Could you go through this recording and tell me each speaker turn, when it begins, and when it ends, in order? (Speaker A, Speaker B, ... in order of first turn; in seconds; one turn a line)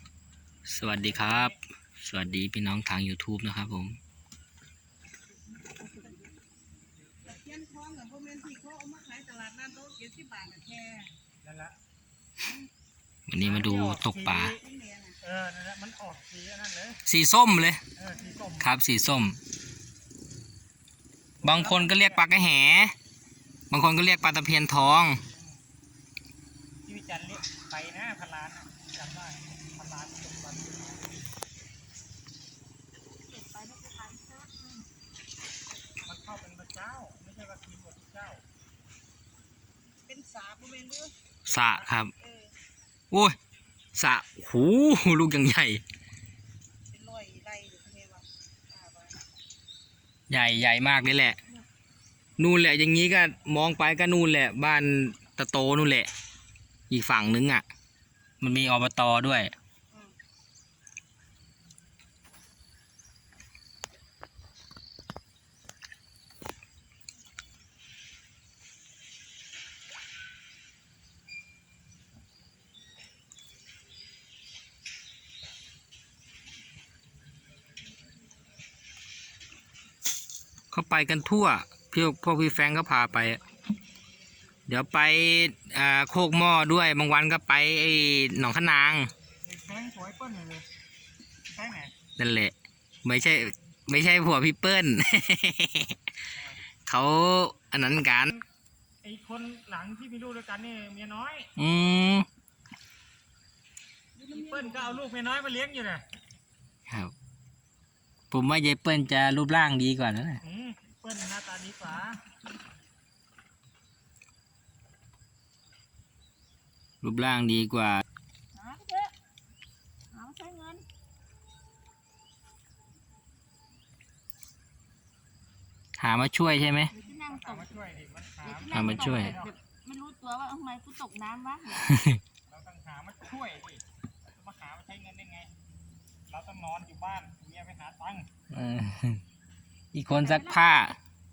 Speaker A: 0.7-4.0
Speaker B: 0.8-1.6
Speaker C: 5.8-6.2
Speaker C: 7.3-11.0
Speaker B: 11.4-11.8
Speaker A: 13.3-14.6
Speaker B: 13.4-14.6
Speaker C: 14.6-15.2
Speaker B: 15.2-17.0
Speaker A: 17.1-17.8
Speaker B: 18.0-18.7
Speaker A: 18.6-19.4
Speaker B: 21.4-22.2
Speaker A: 21.4-22.9
Speaker A: 23.7-25.2
Speaker B: 25.3-25.6
Speaker B: 26.9-31.0
Speaker C: 33.3-34.9
Speaker B: 36.1-38.4
Speaker C: 40.1-41.1
Speaker A: 41.5-42.1
Speaker B: 41.5-41.9
Speaker A: 43.1-43.4
Speaker A: 44.0-45.8
Speaker C: 46.9-49.2
Speaker A: 50.3-51.4
Speaker A: 52.4-56.1
Speaker A: 56.9-57.6
Speaker A: 58.4-59.5
Speaker A: 80.7-83.4
Speaker A: 84.7-89.1
Speaker B: 89.5-90.7
Speaker B: 91.5-91.9
Speaker A: 92.2-96.0
Speaker B: 96.3-96.6
Speaker A: 96.8-98.3
Speaker B: 99.0-101.5
Speaker A: 101.6-102.3
Speaker C: 104.2-105.0
Speaker B: 104.3-106.0
Speaker A: 106.9-107.1
Speaker A: 108.3-110.4
Speaker B: 110.4-112.2
Speaker A: 117.0-118.0
Speaker C: 118.5-119.1
Speaker C: 120.1-120.8
Speaker A: 126.0-126.9
Speaker C: 126.9-127.8
Speaker B: 127.2-129.6
Speaker C: 128.4-131.9
Speaker A: 128.7-129.4
Speaker A: 131.9-132.2
Speaker B: 132.5-135.5
Speaker B: 136.3-138.3
Speaker A: 138.5-139.2
Speaker A: 139.9-141.0
Speaker C: 140.1-140.6